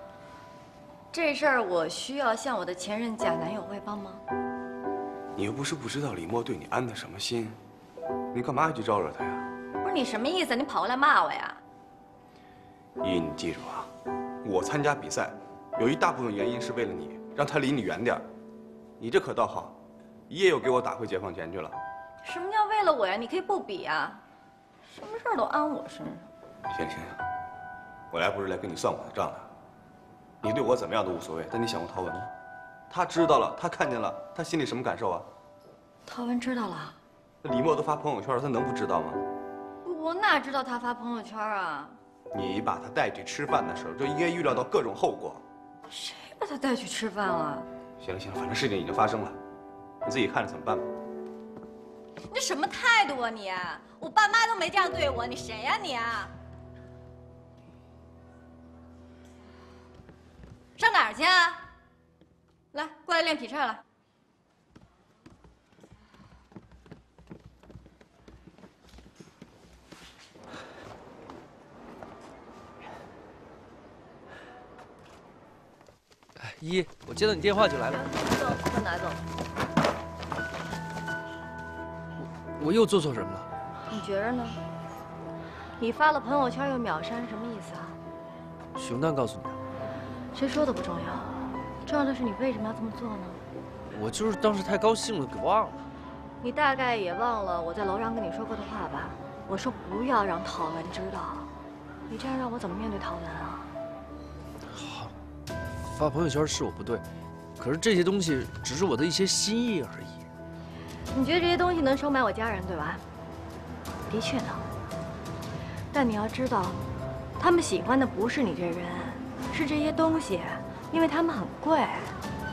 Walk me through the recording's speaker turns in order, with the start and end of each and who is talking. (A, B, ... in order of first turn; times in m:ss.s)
0:01.1-0:04.2 A
0:05.4-0:07.6 B
0:08.3-0:09.4 B
0:09.8-0:11.6 A
0:13.0-0:13.9 B
0:14.4-0:18.2 B
0:19.0-0:19.8 B
0:20.3-0:21.8 B
0:22.2-0:24.2 A
0:24.9-0:26.3 A
0:26.7-0:27.2 B
0:28.1-0:29.5 B
0:30.4-0:32.3 B
0:32.9-0:35.3 B
0:36.1-0:37.0 A
0:37.4-0:39.2 B
0:39.8-0:42.0 A
0:42.3-0:45.4 B
0:45.9-0:47.7 A
0:48.0-0:49.4 B
0:50.0-0:50.8 B
0:52.3-0:56.3 A
1:00.8-1:01.6 A
1:02.7-1:03.8 A
1:16.4-1:18.1 C
1:17.8-1:19.2 A
1:22.2-1:23.5 C
1:23.9-1:24.6 A
1:25.8-1:28.0 A
1:28.8-1:29.6 C
1:30.3-1:33.4 A
1:33.9-1:35.8 C
1:36.4-1:41.5 A
1:42.1-1:43.7 A
1:44.7-1:45.1 C
1:45.8-1:47.0 C
1:47.6-1:50.2 C
1:51.1-1:53.0 A
1:54.1-1:54.6 A
1:55.9-1:56.8 A
1:57.4-2:02.2 A